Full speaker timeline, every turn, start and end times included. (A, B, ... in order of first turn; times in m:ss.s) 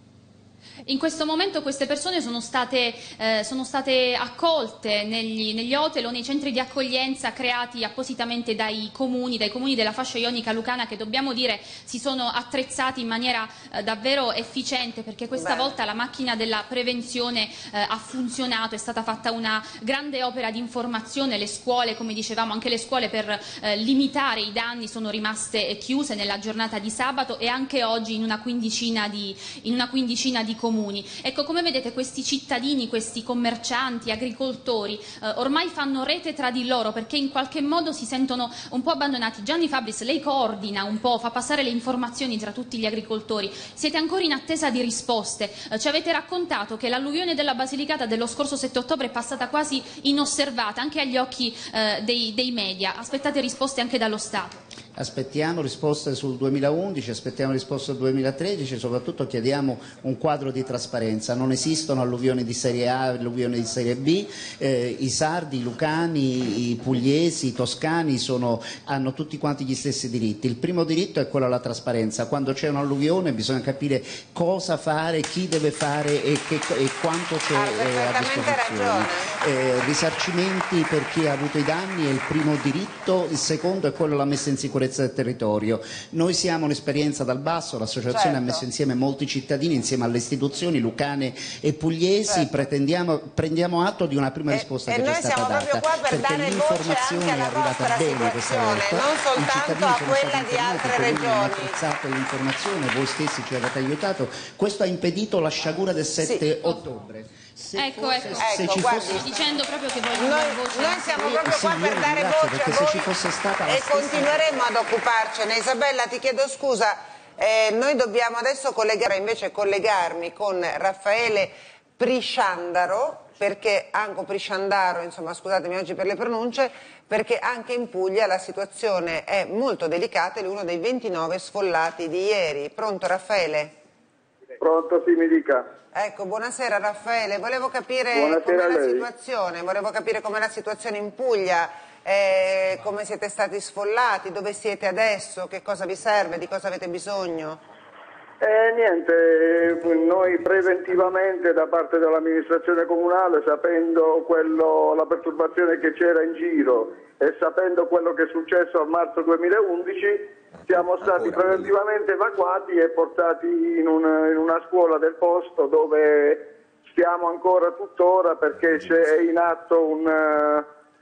0:00.8-0:54.6 A
0:15.4-0:15.7 B
0:55.0-1:49.3 C
1:17.5-1:19.3 B
1:28.1-1:28.6 B
1:32.3-1:32.6 B
1:34.5-1:41.8 B
1:46.2-1:46.4 B
1:47.7-1:51.4 A
1:48.4-1:49.3 B
1:50.2-1:53.1 B
1:51.2-1:54.4 C
1:53.6-2:13.7 B
2:14.6-2:15.7 D
2:15.9-2:27.6 B
2:18.1-2:19.1 D
2:28.4-2:50.6 D